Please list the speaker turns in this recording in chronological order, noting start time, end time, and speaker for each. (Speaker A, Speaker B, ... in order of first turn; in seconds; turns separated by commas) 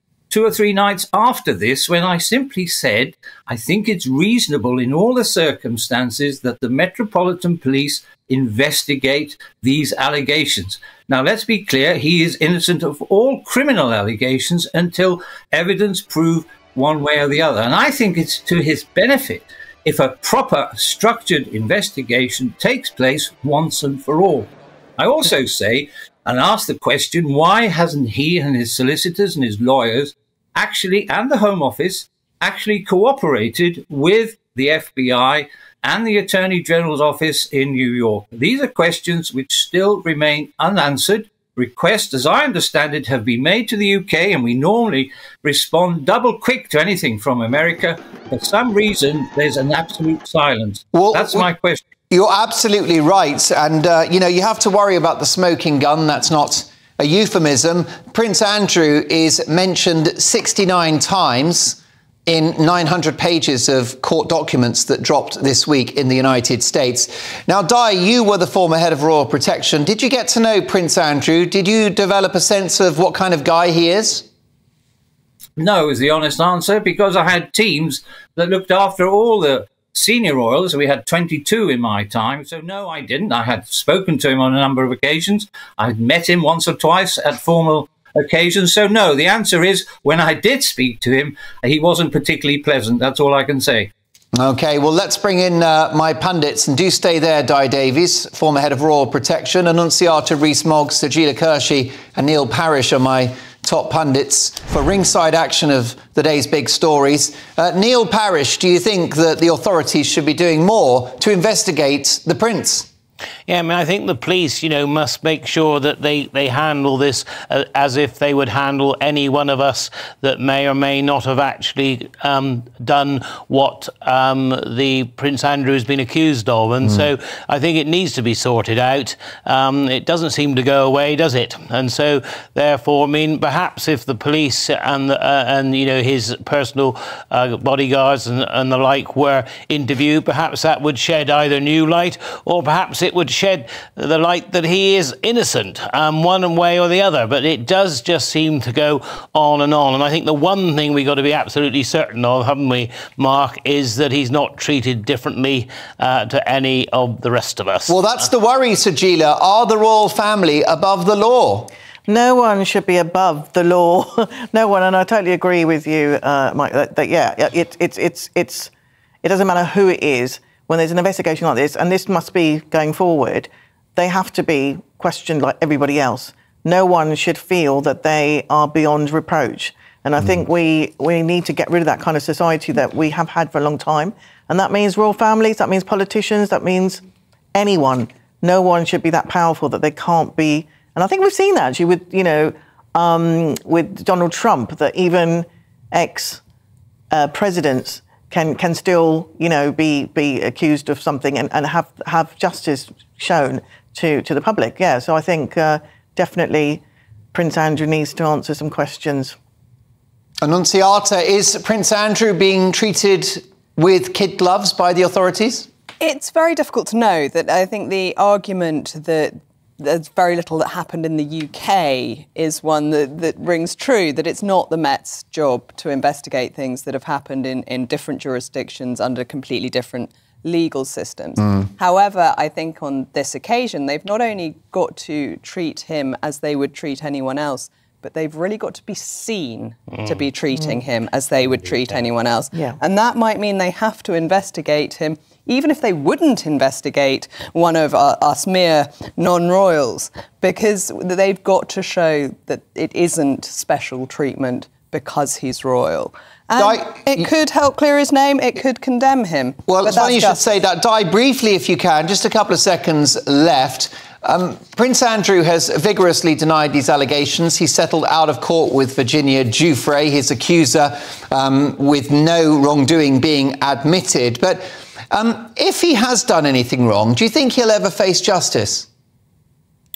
Speaker A: 0.3-51.8, Speaker B: 50.9-51.5, Speaker B: 52.1-74.2, Speaker A: 75.6-93.9, Speaker B: 94.3-112.9, Speaker C: 113.5-158.0, Speaker B: 157.9-161.7, Speaker D: 162.1-168.7, Speaker D: 169.2-187.0, Speaker D: 187.5-196.4, Speaker D: 197.1-206.8, Speaker D: 207.3-209.4, Speaker B: 210.4-215.7, Speaker E: 216.0-260.6, Speaker C: 239.9-240.2, Speaker B: 256.6-257.3, Speaker B: 259.7-278.9